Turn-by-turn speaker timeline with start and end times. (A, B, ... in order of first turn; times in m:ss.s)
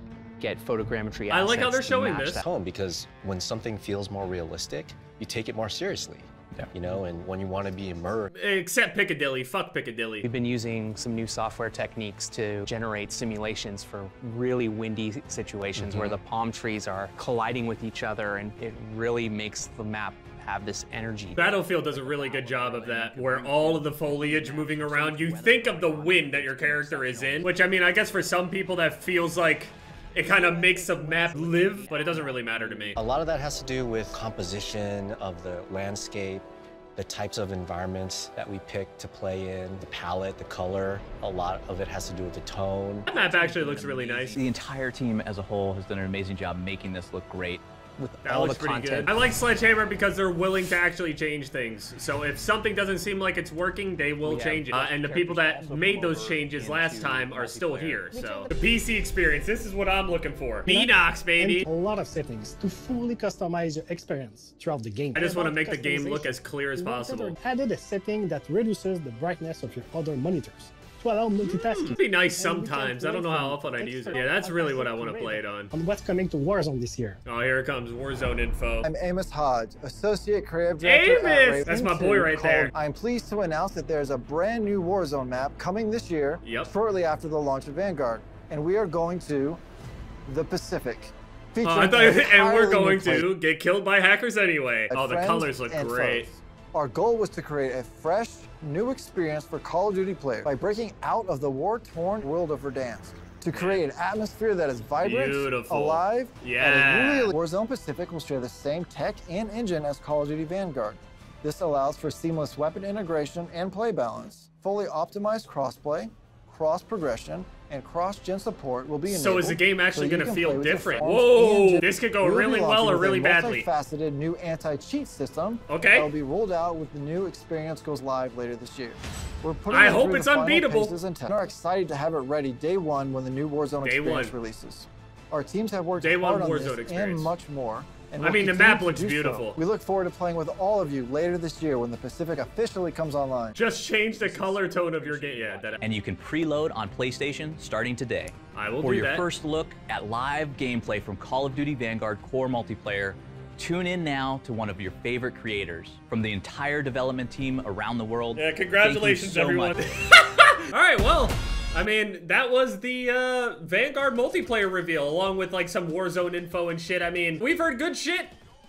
0:00.4-0:02.4 A
0:01.3-0:02.4 B
0:02.4-0:08.3 C
0:08.4-0:10.3 B
0:10.2-0:21.4 A
0:15.8-0:16.2 C
0:21.4-0:33.0 B
0:21.4-0:28.0 D
0:31.4-0:32.0 A
0:32.9-0:43.1 C
0:43.1-0:44.4 B
0:43.1-0:47.6 D
0:48.0-0:49.1 A
0:48.2-1:01.7 B
0:54.2-0:57.1 D
0:57.1-0:58.0 A
0:58.1-0:58.7 E
1:00.7-1:17.2 E
1:05.2-1:07.4 B
1:11.4-1:15.7 B
1:17.2-1:18.9 B
1:18.8-1:29.6 F
1:20.8-1:22.7 B
1:26.4-1:26.7 B
1:30.3-1:33.3 F
1:31.6-1:36.3 B
1:34.9-2:23.6 F
1:43.5-1:43.8 B
1:45.0-1:47.3 B
1:59.1-2:03.7 B
2:05.7-2:06.1 B
2:09.7-2:11.0 B
2:13.8-2:14.4 B
2:16.0-2:17.3 B
2:18.2-2:19.6 B
2:23.6-2:25.8 B
2:25.8-2:39.8 D
2:28.5-2:29.3 B
2:38.4-2:48.3 B